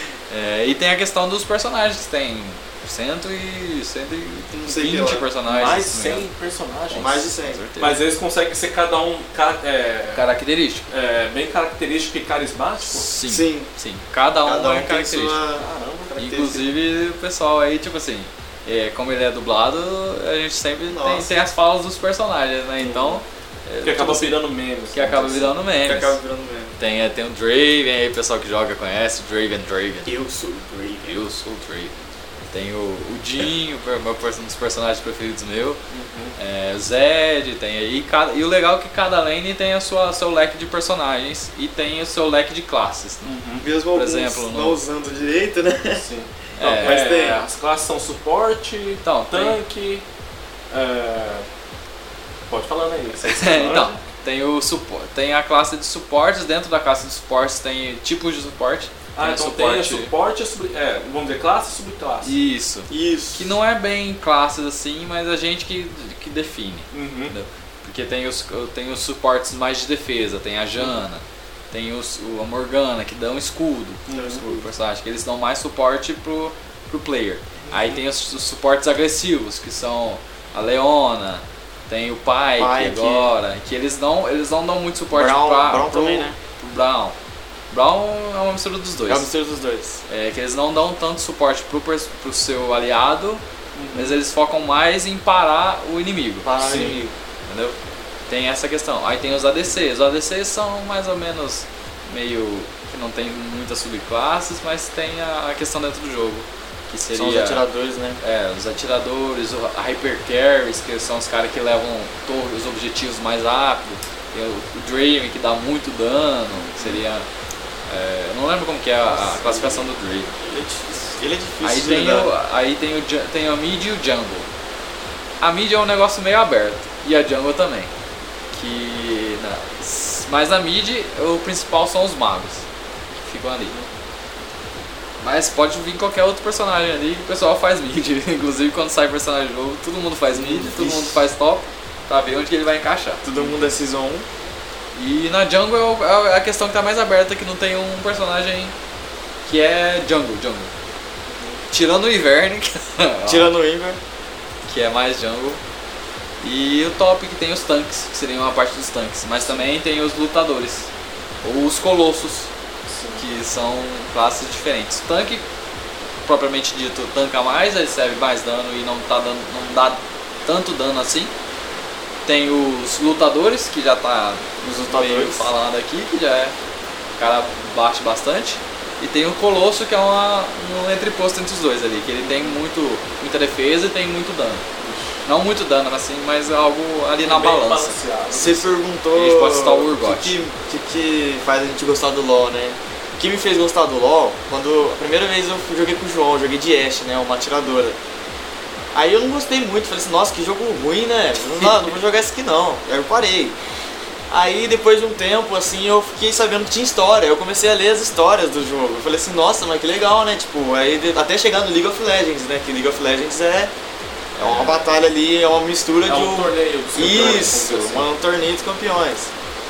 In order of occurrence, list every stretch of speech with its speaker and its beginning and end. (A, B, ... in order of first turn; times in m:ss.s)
0:00.3-0:06.3 A
0:04.5-0:05.3 B
0:05.5-0:07.2 C
0:06.9-0:08.0 A
0:07.0-0:07.6 B
0:07.8-0:10.2 C
0:10.2-0:10.9 A
0:10.9-0:13.1 C
0:12.9-0:15.4 A
0:13.3-0:13.7 B
0:14.4-0:15.6 B
0:15.6-0:16.4 C
0:16.2-0:16.6 B
0:16.2-0:24.4 A
0:20.9-0:21.3 B
0:22.8-0:23.2 C
0:23.8-0:25.5 C
0:24.9-0:26.2 A
0:25.8-0:26.8 B
0:26.8-0:30.1 A
0:30.1-0:31.2 B
0:31.1-0:32.0 A
0:32.5-0:35.8 A
0:35.9-0:36.4 C
0:36.4-0:43.3 A
0:43.2-0:43.6 C
0:43.6-0:46.0 B
0:43.9-0:44.8 A
0:46.0-0:50.0 C
0:46.6-0:47.1 A
0:46.7-0:47.4 B
0:49.0-0:49.6 A
0:50.7-0:51.5 C
0:52.5-0:54.0 C
0:53.2-1:00.1 A
0:59.2-1:02.4 C
1:02.2-1:27.2 A
1:02.9-1:03.5 B
1:06.9-1:07.3 C
1:14.1-1:14.4 C
1:14.1-1:14.6 B
1:17.6-1:18.0 C
1:22.6-1:23.3 B
1:25.1-1:26.4 B
1:27.7-1:29.3 A
1:29.1-1:30.0 B
1:30.1-1:33.4 A
1:33.8-1:34.2 C
1:33.9-1:36.5 A
1:36.4-1:37.1 B
1:36.6-1:37.0 C
1:37.5-1:37.8 A
1:38.3-1:47.6 A
1:47.1-1:48.2 B
1:48.2-1:57.3 A
1:56.8-1:57.0 C
1:57.9-2:00.3 A
1:59.2-1:59.8 B
2:00.4-2:02.3 B
2:01.6-2:04.5 A
2:05.4-2:07.9 A
2:08.5-2:12.6 A
2:13.2-2:13.7 A
2:15.2-2:23.2 A
2:20.3-2:21.2 B
2:23.2-2:24.3 B
2:23.4-2:23.7 C
2:25.0-2:28.7 A
2:29.4-2:30.7 A
2:31.3-2:31.6 C
2:31.7-2:33.5 A
2:33.2-2:34.0 B
2:34.7-2:35.6 A
2:36.4-2:40.9 A
2:41.4-2:42.5 A
2:42.9-2:43.2 C
2:43.2-2:45.4 A
2:46.2-2:51.3 A
2:52.3-2:56.5 A
2:54.6-2:55.5 B
2:57.2-3:04.6 A
3:02.2-3:02.5 C
3:04.8-3:05.2 C
3:05.2-3:08.6 A
3:07.2-3:08.7 C
3:08.3-3:18.0 B
3:09.1-3:10.4 A
3:18.9-3:23.6 B
3:24.3-3:33.7 B
3:34.4-3:34.9 A
3:34.4-3:39.3 B
3:36.1-3:38.1 C